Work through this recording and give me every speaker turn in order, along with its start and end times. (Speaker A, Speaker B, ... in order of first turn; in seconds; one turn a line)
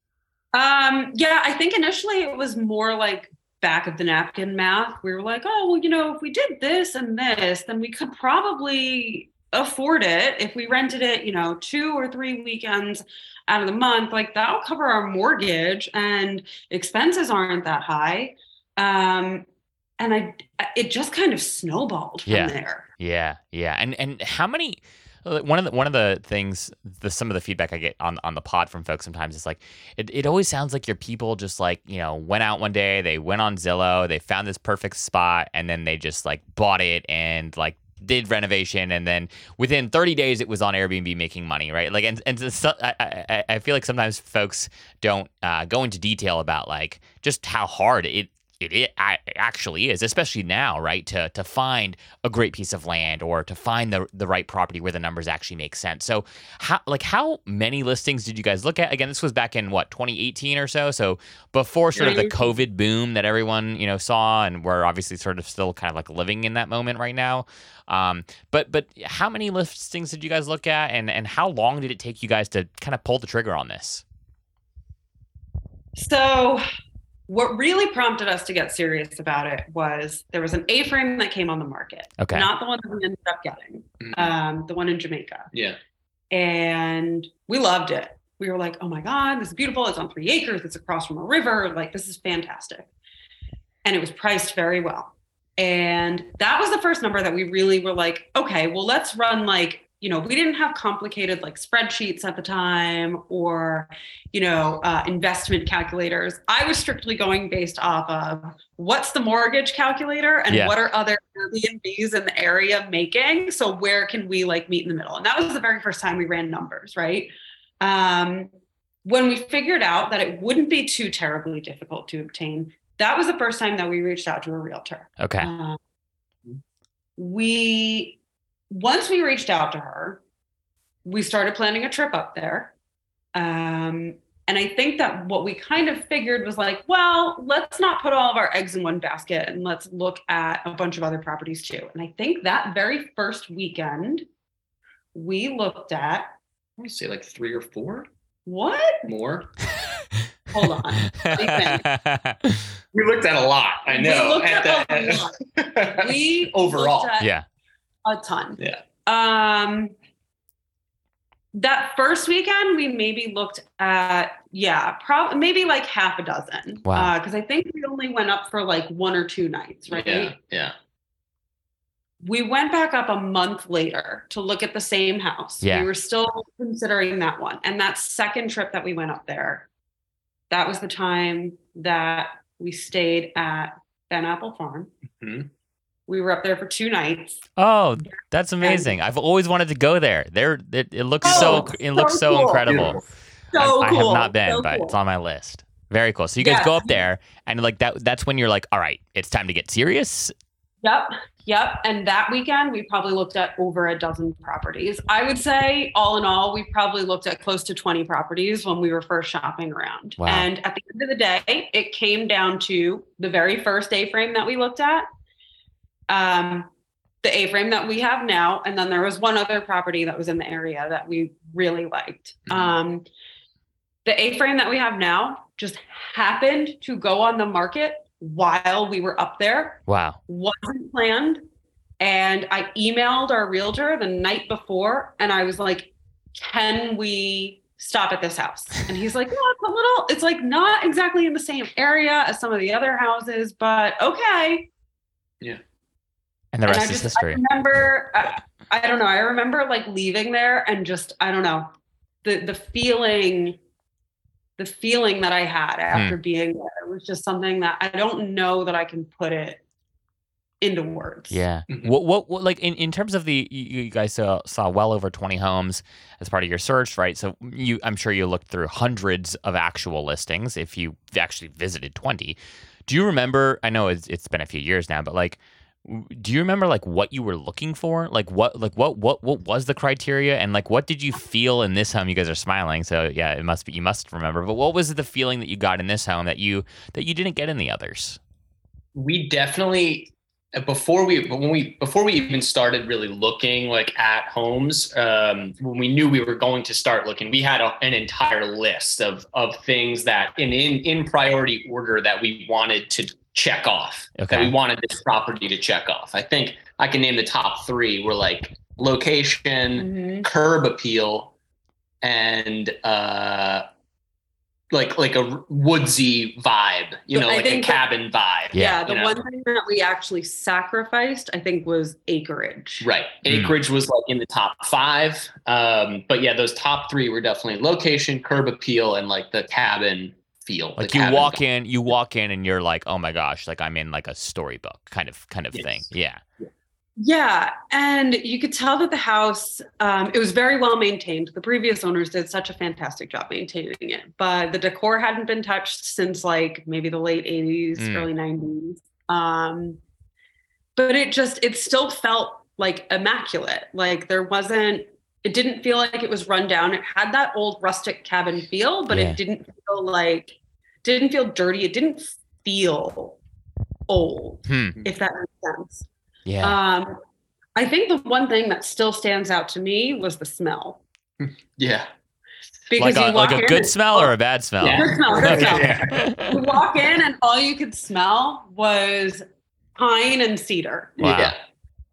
Speaker A: 0.5-19.4
Speaker A: 20.0-22.9
Speaker B: 22.3-74.0
Speaker C: 61.9-62.2
Speaker A: 62.0-62.4
Speaker A: 76.0-76.6
Speaker A: 77.3-85.5
Speaker B: 82.2-82.5
Speaker C: 84.0-84.3
Speaker C: 85.5-85.8
Speaker A: 86.3-92.9
Speaker A: 93.8-118.5
Speaker B: 110.5-110.7
Speaker A: 119.0-125.8
Speaker B: 125.2-125.5
Speaker A: 127.2-128.2
Speaker A: 128.7-130.2
Speaker A: 131.0-132.7
Speaker A: 133.3-144.2
Speaker A: 145.1-146.3
Speaker C: 146.8-148.1
Speaker A: 148.4-149.1
Speaker C: 149.0-149.5
Speaker A: 150.5-151.8
Speaker B: 151.1-152.8
Speaker C: 152.9-157.1
Speaker A: 153.9-157.3
Speaker B: 157.2-157.4
Speaker A: 158.0-159.9
Speaker A: 161.5-170.3
Speaker B: 166.8-167.1
Speaker C: 169.9-170.7
Speaker A: 172.2-179.7
Speaker B: 175.6-175.9
Speaker A: 180.5-184.9
Speaker C: 185.2-185.5
Speaker A: 186.1-187.4
Speaker B: 187.6-193.0
Speaker A: 188.6-188.9
Speaker A: 191.2-192.9
Speaker C: 191.3-191.6
Speaker C: 192.7-192.9
Speaker A: 193.5-194.9
Speaker B: 193.6-200.3
Speaker A: 196.4-196.9
Speaker A: 200.8-215.1
Speaker B: 210.2-210.5
Speaker A: 216.1-216.7
Speaker A: 217.2-223.1
Speaker A: 224.0-231.4
Speaker B: 229.9-230.2
Speaker A: 232.0-244.7
Speaker B: 246.5-247.4
Speaker A: 246.7-251.7
Speaker A: 252.2-253.6
Speaker A: 254.6-259.6
Speaker B: 255.9-256.2
Speaker A: 260.6-261.4
Speaker B: 261.3-288.2
Speaker C: 261.7-261.9
Speaker C: 288.9-311.3
Speaker B: 304.2-304.5
Speaker A: 309.8-310.3
Speaker C: 312.0-313.6
Speaker C: 314.7-319.2
Speaker A: 317.1-317.8
Speaker A: 318.5-322.9
Speaker B: 318.5-318.8
Speaker C: 322.8-331.4
Speaker B: 323.3-323.5
Speaker B: 330.8-336.2
Speaker C: 335.5-335.8
Speaker A: 337.0-349.8
Speaker B: 347.8-348.1
Speaker A: 350.8-363.2
Speaker B: 358.9-359.2
Speaker A: 363.9-365.9
Speaker B: 364.5-364.8
Speaker B: 366.2-366.6
Speaker A: 366.4-366.9
Speaker A: 367.6-370.8
Speaker C: 371.2-371.9
Speaker A: 372.7-374.1
Speaker B: 372.8-376.6
Speaker C: 374.6-376.0
Speaker A: 374.7-379.2
Speaker A: 379.8-381.0
Speaker B: 381.0-381.3
Speaker C: 381.0-381.4